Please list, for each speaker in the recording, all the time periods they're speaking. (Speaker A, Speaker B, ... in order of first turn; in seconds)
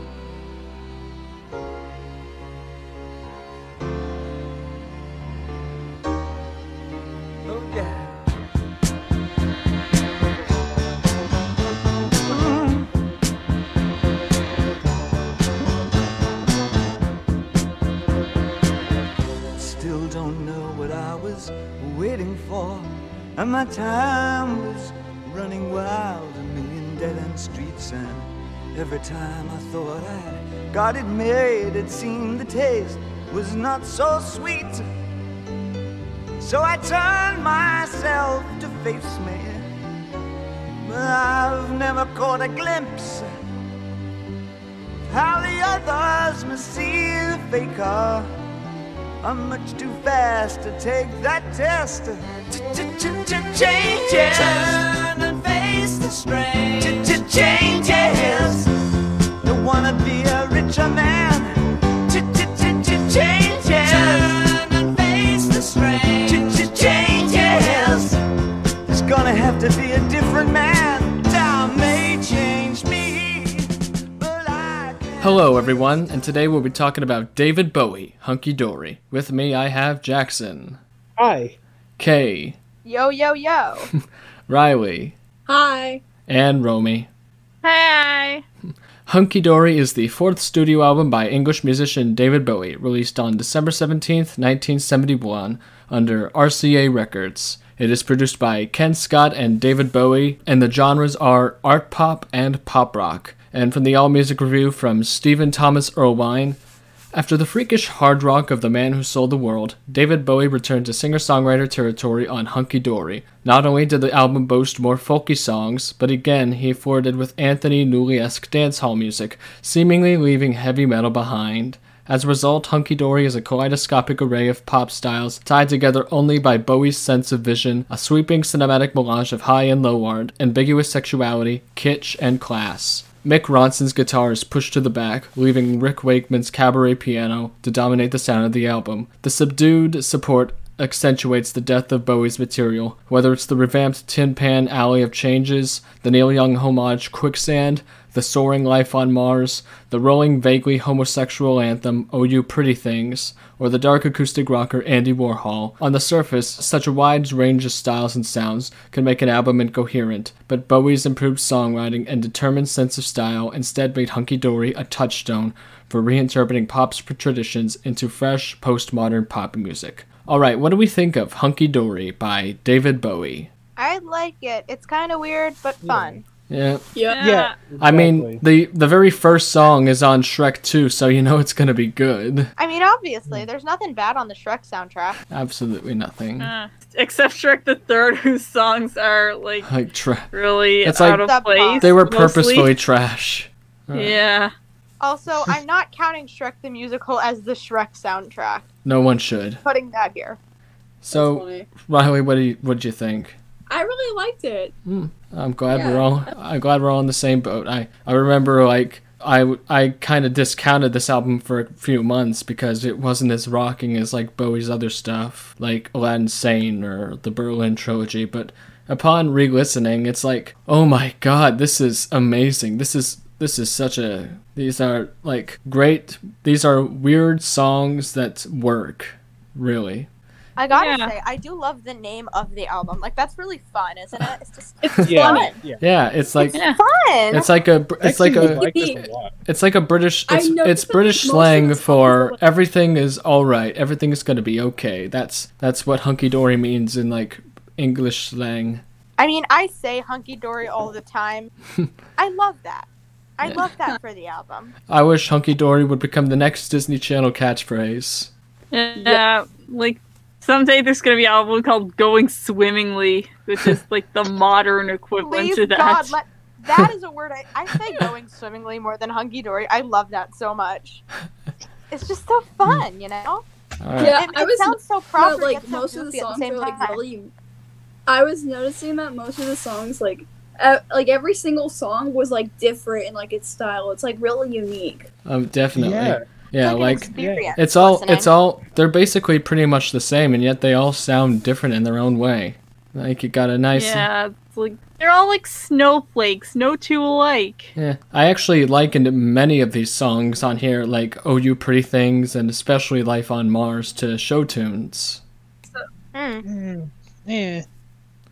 Speaker A: 7.4-8.2, 12.3-12.9, 19.6-34.9, 36.4-39.7, 40.8-43.3, 45.1-48.3, 49.2-58.7, 59.4-68.2, 68.9-75.9
Speaker B: 75.2-80.8, 82.0-82.6, 84.5-85.2, 86.3-87.1, 89.1-106.6, 107.1-173.5, 176.5-176.8, 177.8-182.5, 185.3-186.5, 189.7-190.3, 190.8-191.2, 191.8-194.2, 198.8-199.6, 201.0-203.4, 204.9-230.1, 235.8-236.6, 237.3-248.8, 254.9-258.3, 273.8-274.2, 285.3-294.1, 297.8-305.2
Speaker C: 81.2-81.6, 175.8-176.2, 177.2-178.4, 235.0-235.8, 238.0-239.3, 285.8-286.2, 287.1-287.5, 306.4-307.6
Speaker D: 82.8-83.9, 173.8-176.2, 182.6-185.2, 191.2-191.9, 195.0-198.7, 199.6-200.4, 230.6-235.6, 236.4-237.5, 249.2-251.5, 252.2-254.7, 265.2-271.0, 271.9-273.4, 274.0-277.0, 286.6-288.3, 306.1-306.4
Speaker E: 85.5-86.0, 176.9-177.3, 201.1-201.7, 203.7-204.7, 205.7-206.2, 235.2-235.5, 238.4-239.0, 240.3-242.4, 259.0-259.2, 274.0-277.3, 278.1-285.1
Speaker F: 87.6-88.4, 177.1-177.5, 186.4-189.7, 190.3-192.7, 193.9-194.5, 230.7-231.1, 258.7-266.1, 293.8-297.7